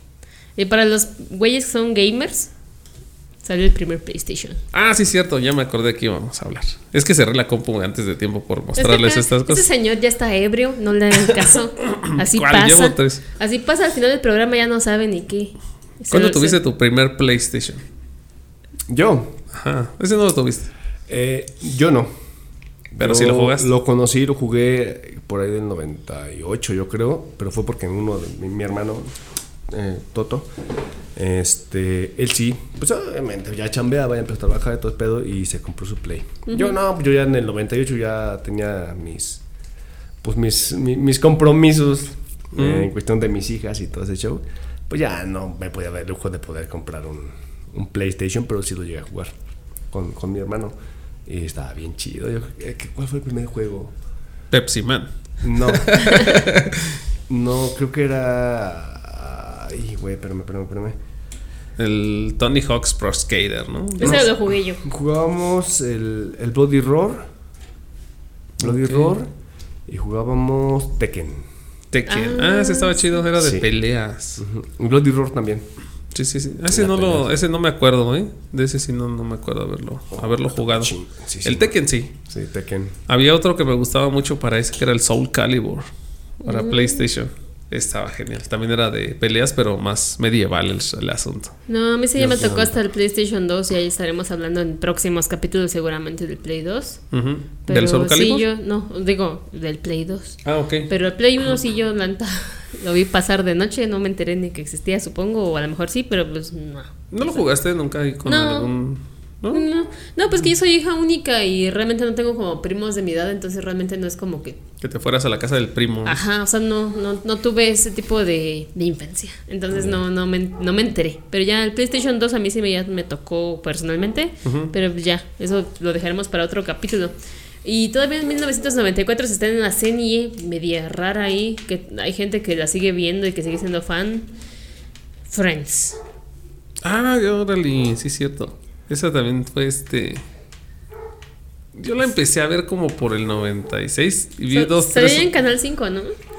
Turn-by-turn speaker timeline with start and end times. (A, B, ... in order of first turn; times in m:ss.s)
0:00.6-0:02.5 A
0:03.4-0:04.6 A
0:04.7-0:09.7 B
0:08.8-0:16.6 A
0:11.4-0:13.2 B
0:16.1-0:17.8 B
0:18.9-0:19.4 C
0:19.5-0:20.7 B
0:21.1-0:22.1 C
0:22.9-0:29.1 C
0:23.0-0:23.7 B
0:29.7-0:30.5 C
0:31.2-0:39.4 C
0:36.5-0:36.8 A
0:40.2-0:49.3 C
0:42.6-0:42.9 B
0:49.9-0:50.8 C
0:51.3-0:53.9 C
0:54.5-0:57.0 B
0:55.4-0:56.3 C
0:57.3-1:01.0 C
1:01.8-1:04.3 B
1:04.0-1:04.8 A
1:04.0-1:04.3 C
1:04.8-1:07.3 C
1:08.6-1:09.3 C
1:08.6-1:09.1 B
1:09.9-1:11.5 C
1:11.9-1:14.4 B
1:12.1-1:13.2 A
1:13.4-1:13.7 C
1:14.4-1:15.6 C
1:16.1-1:22.2 B
1:16.7-1:17.3 C
1:20.1-1:23.0 C
1:23.1-1:25.9 B
1:26.4-1:31.6 B
1:26.4-1:27.0 A
1:31.7-1:37.0 A
1:32.2-1:32.8 C
1:37.1-1:38.4 B
1:37.7-1:47.5 A
1:40.4-1:40.9 B
1:47.1-1:49.6 B
1:48.2-1:48.7 A
1:49.5-1:54.6 A
1:54.8-1:56.2 B
1:56.0-2:14.3 A
1:59.7-2:00.0 C
2:04.4-2:04.7 B
2:15.3-2:16.0 A
2:16.8-2:20.2 B
2:21.8-2:25.3 B
2:24.5-2:26.1 A